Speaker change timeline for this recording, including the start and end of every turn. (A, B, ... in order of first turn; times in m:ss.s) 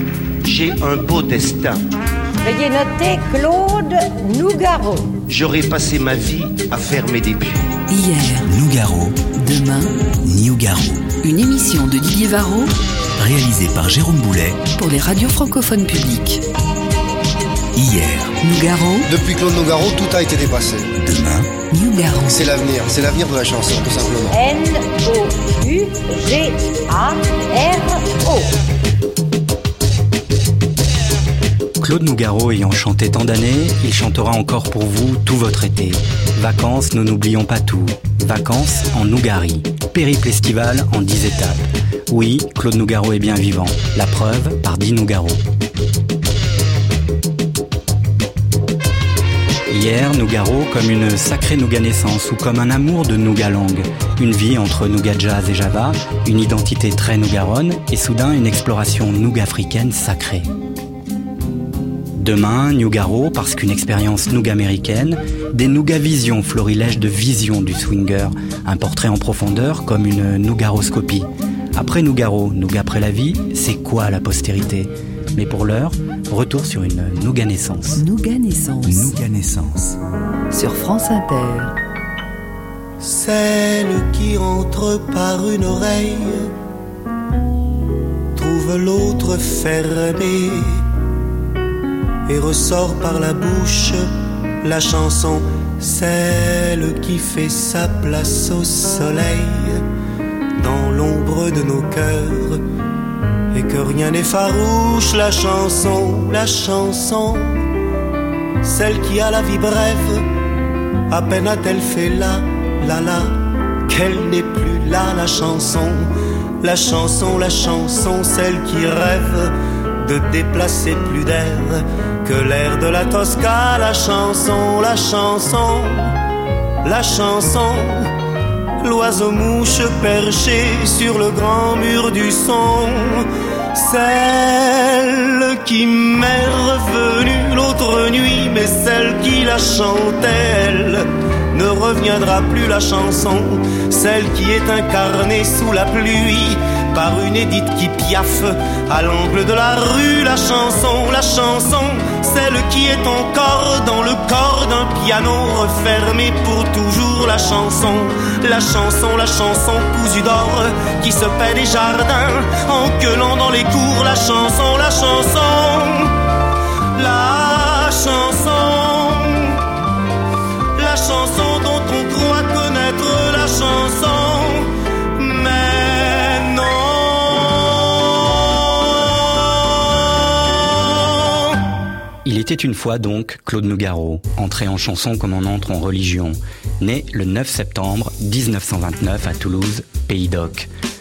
0:00.4-0:01.8 A
0:02.4-0:05.1 B
0:05.3-0:07.8 A
0:07.9-0:08.6 C
0:09.3-0:09.9 C
0:11.2-0:12.7 C
0:14.7-0:16.4 C
0:18.4-0:19.1 C
0:19.0-0:20.9 D
0:21.7-0:22.5 C
0:22.3-0:24.4 D
0:24.3-0:28.5 B
0:31.8-0:45.4 E
0:49.7-1:00.5 E
1:02.2-1:18.0 E
1:18.0-1:19.4 C
1:20.5-1:21.7 C
1:23.1-1:26.2 F
1:28.4-1:30.6 F
1:32.3-1:34.1 F
1:34.6-1:39.8 F
1:40.6-1:42.6 F
1:43.5-1:47.6 F
1:48.6-1:50.2 F
1:51.1-1:53.3 F
1:53.9-1:56.1 F
1:56.6-2:06.2 F
2:06.8-2:08.1 F
2:08.8-2:46.1 F
2:47.0-2:49.6 F
2:50.8-3:01.4 F
3:02.2-3:10.7 E